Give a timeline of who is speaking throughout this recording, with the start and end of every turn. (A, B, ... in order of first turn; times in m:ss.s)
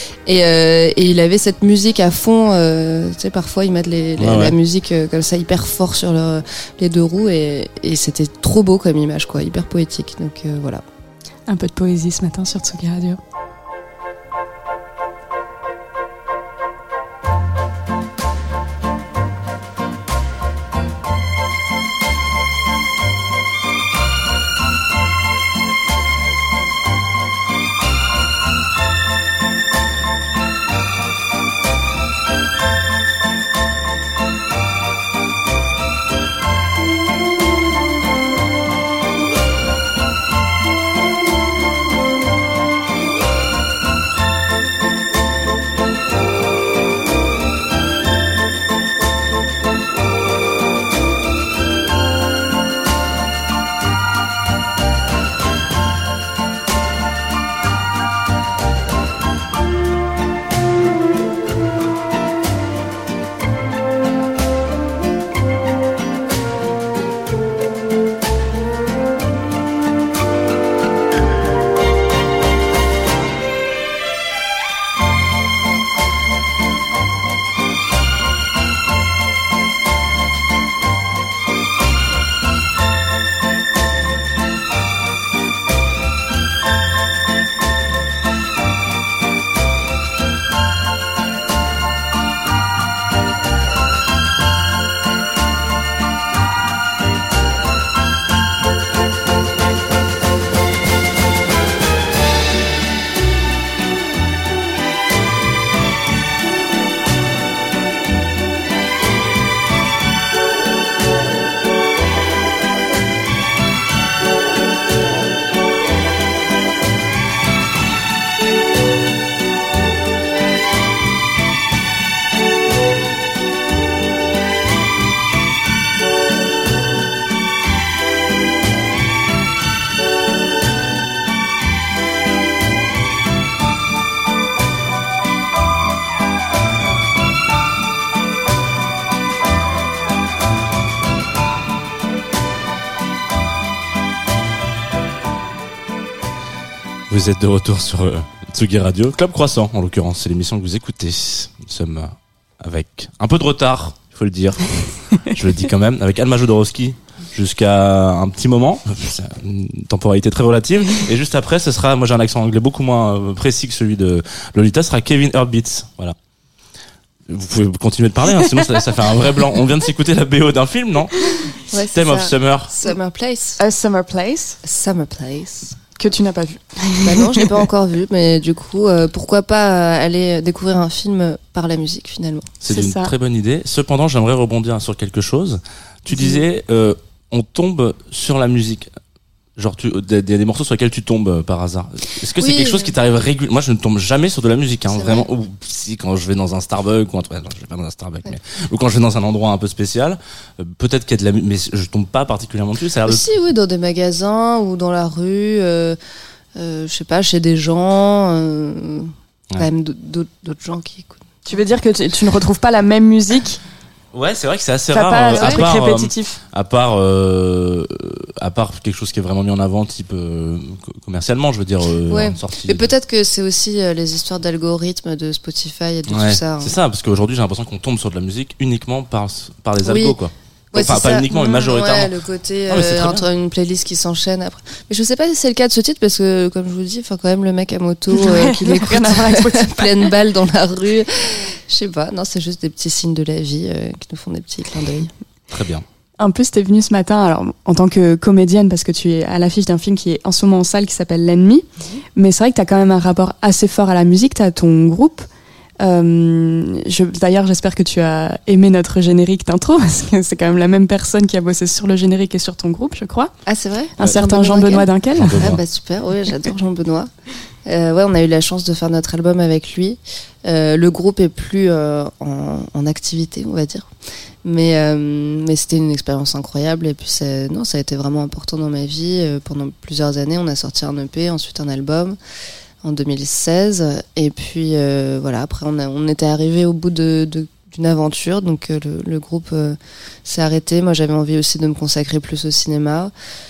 0:00.3-0:10.8 A
0:04.2-0:04.6 B
0:11.5-0:13.2 C
2:27.1-2:46.2 B
2:47.3-2:52.7 B
2:51.7-2:53.6 A
2:53.6-2:54.6 C
2:54.6-2:55.8 A
2:56.0-2:57.6 C
2:57.0-3:02.5 A
3:02.6-3:08.9 B
3:02.7-3:03.1 C
3:06.1-3:06.4 A
3:09.6-3:23.2 B
3:12.4-3:12.9 A
3:14.9-3:15.3 A
3:23.0-3:26.0 A
3:26.6-3:31.3 A
3:31.5-3:33.6 C
3:34.1-3:42.9 B
3:34.9-3:36.4 C
3:35.3-3:35.7 A
3:42.1-3:46.8 A
3:46.1-3:52.1 B
3:49.8-3:50.2 A
3:50.7-4:05.1 A
3:52.7-3:53.2 B
3:58.1-4:00.1 C
4:05.5-4:05.8 B
4:06.2-4:15.3 C
4:15.8-4:23.3 C
4:23.5-4:27.1 A
4:24.0-4:25.4 C
4:25.2-4:25.6 B
4:27.6-4:33.9 A
4:34.4-4:42.2 A
4:42.8-4:53.1 A